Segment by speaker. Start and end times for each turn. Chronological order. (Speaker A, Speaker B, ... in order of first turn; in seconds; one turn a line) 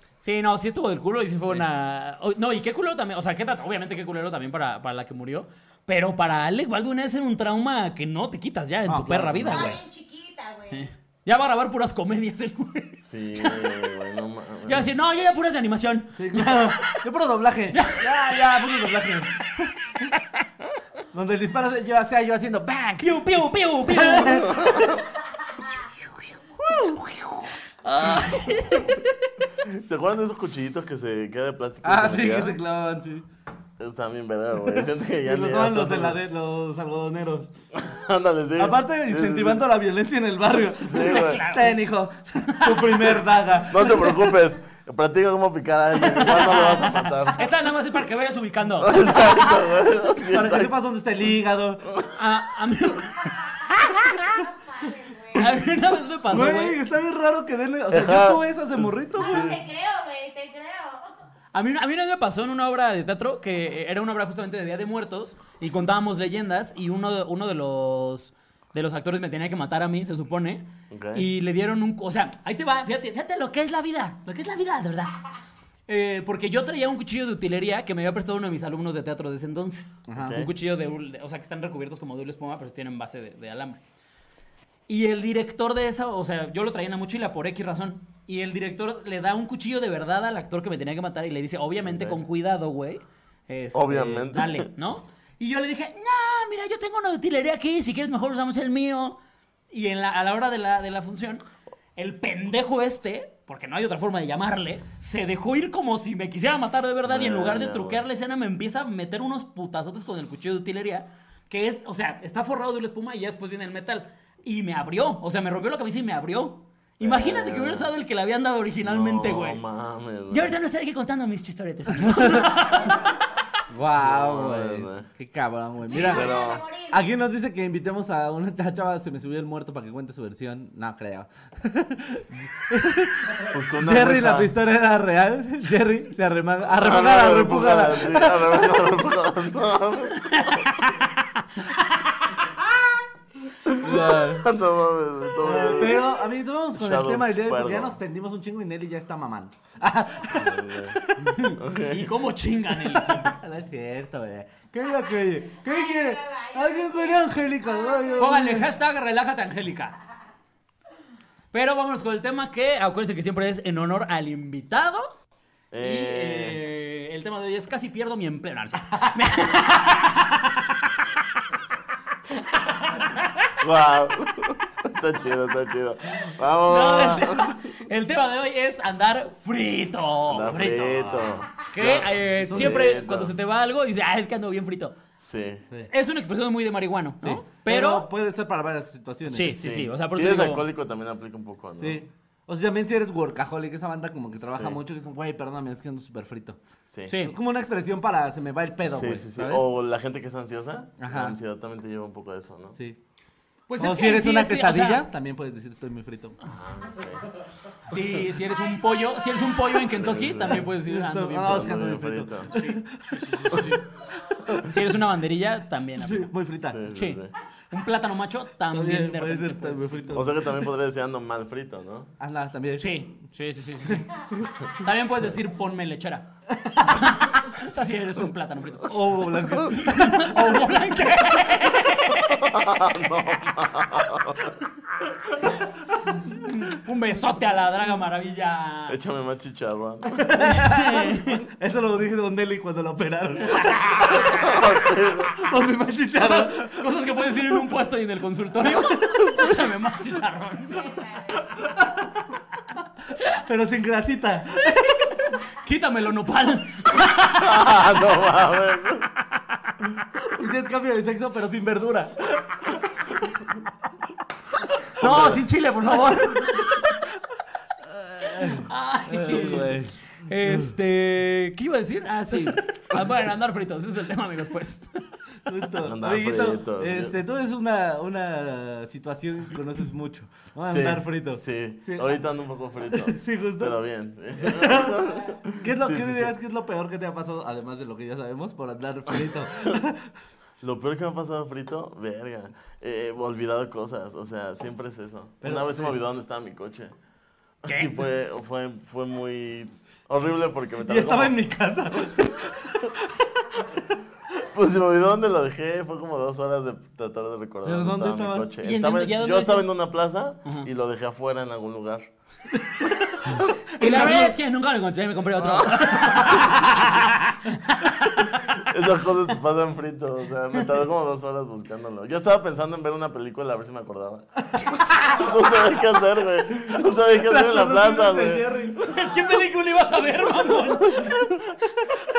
Speaker A: 0.2-9.8
Speaker B: 8.8-9.7
Speaker C: 9.5-10.9
Speaker A: 10.7-13.7
Speaker D: 13.0-14.9
Speaker A: 14.6-17.0
Speaker B: 16.1-19.3
Speaker A: 17.7-18.7
Speaker B: 21.1-23.2
Speaker A: 23.0-24.6
Speaker B: 23.9-24.6
Speaker D: 24.4-25.1
Speaker A: 26.5-29.3
Speaker D: 29.6-32.6
Speaker B: 31.8-33.2
Speaker D: 33.8-36.2
Speaker B: 35.2-37.5
Speaker D: 37.7-39.6
Speaker B: 38.6-44.2
Speaker D: 40.8-41.4
Speaker A: 40.9-41.8
Speaker A: 42.6-43.2
Speaker D: 43.7-47.5
Speaker A: 46.0-49.0
Speaker D: 48.8-50.7
Speaker B: 50.3-51.8
Speaker D: 51.8-52.1
Speaker A: 52.1-54.4
Speaker C: 53.6-55.6
Speaker A: 55.3-56.8
Speaker B: 56.3-59.5
Speaker D: 57.9-59.6
Speaker C: 59.2-61.1
Speaker A: 61.5-75.1
Speaker D: 70.9-71.3
Speaker A: 75.9-83.8
Speaker B: 80.1-80.4
Speaker D: 80.2-80.5
Speaker A: 84.9-99.2
Speaker D: 91.8-92.2
Speaker D: 93.7-94.7
Speaker A: 99.7-101.4
Speaker A: 102.0-119.6
Speaker D: 107.0-108.0
Speaker D: 117.0-117.9
Speaker D: 118.8-120.5
Speaker A: 120.3-123.2
Speaker B: 122.0-122.5
Speaker B: 123.7-126.3
Speaker D: 124.0-125.1
Speaker C: 125.8-127.1
Speaker D: 125.9-126.6
Speaker B: 126.9-138.5
Speaker D: 133.5-134.5
Speaker D: 136.7-140.7
Speaker A: 140.2-142.5
Speaker D: 143.6-146.1
Speaker B: 143.8-144.5
Speaker B: 145.4-151.3
Speaker D: 146.7-148.0
Speaker D: 150.3-151.0
Speaker A: 151.2-153.3
Speaker D: 151.5-152.1
Speaker B: 152.9-158.7
Speaker C: 155.5-158.3
Speaker A: 158.2-160.0
Speaker A: 161.5-165.1
Speaker D: 165.7-166.6
Speaker A: 165.8-170.9
Speaker A: 172.5-173.5
Speaker D: 173.6-177.6
Speaker A: 176.6-185.0
Speaker D: 180.3-183.3
Speaker B: 182.5-182.8
Speaker D: 185.2-185.6
Speaker A: 185.9-188.1
Speaker B: 187.2-189.6
Speaker A: 189.3-190.6
Speaker D: 189.5-192.0
Speaker B: 191.8-196.6
Speaker D: 194.4-194.8
Speaker D: 196.9-197.1
Speaker A: 197.1-197.3
Speaker B: 197.2-199.6
Speaker D: 198.8-202.8
Speaker B: 201.0-201.3
Speaker A: 203.7-205.1
Speaker B: 203.8-206.4
Speaker D: 206.4-207.2
Speaker A: 207.8-211.8
Speaker D: 207.9-208.2
Speaker C: 208.5-209.7
Speaker D: 209.8-210.7
Speaker B: 210.8-213.7
Speaker D: 211.4-212.6
Speaker A: 212.5-213.8
Speaker D: 213.5-213.8
Speaker B: 214.3-214.7
Speaker A: 214.6-216.3
Speaker B: 216.0-216.8
Speaker D: 216.6-217.3
Speaker A: 216.8-220.1
Speaker B: 218.7-220.6
Speaker D: 220.1-222.1
Speaker B: 222.2-223.0
Speaker A: 222.8-226.3
Speaker B: 226.5-227.1
Speaker A: 226.8-232.7
Speaker B: 228.8-230.5
Speaker D: 232.3-234.5
Speaker A: 236.0-239.0
Speaker D: 238.9-240.3
Speaker B: 240.1-244.2
Speaker A: 240.4-241.4
Speaker A: 243.6-244.6
Speaker D: 244.1-245.4
Speaker B: 245.3-246.8
Speaker A: 246.2-250.9
Speaker C: 250.7-251.6
Speaker B: 251.6-252.2
Speaker B: 253.3-255.1
Speaker A: 255.4-257.8
Speaker D: 257.3-259.1
Speaker B: 260.3-262.8
Speaker A: 265.0-266.9
Speaker D: 265.0-265.4
Speaker B: 267.8-270.7
Speaker A: 268.4-275.0
Speaker B: 275.4-282.2
Speaker D: 275.8-277.2
Speaker D: 280.6-286.3
Speaker B: 282.9-283.8
Speaker B: 284.4-285.1
Speaker B: 285.6-290.1
Speaker D: 290.6-296.9
Speaker B: 295.4-296.0
Speaker D: 297.6-301.4
Speaker A: 297.6-297.9
Speaker B: 300.8-303.8
Speaker D: 304.4-312.1
Speaker B: 307.6-308.5
Speaker A: 308.6-309.7
Speaker D: 313.1-313.6
Speaker A: 313.8-318.5
Speaker B: 313.8-314.3
Speaker D: 315.4-316.8
Speaker D: 318.4-324.3
Speaker D: 324.8-328.5
Speaker B: 327.0-328.9
Speaker A: 328.8-331.3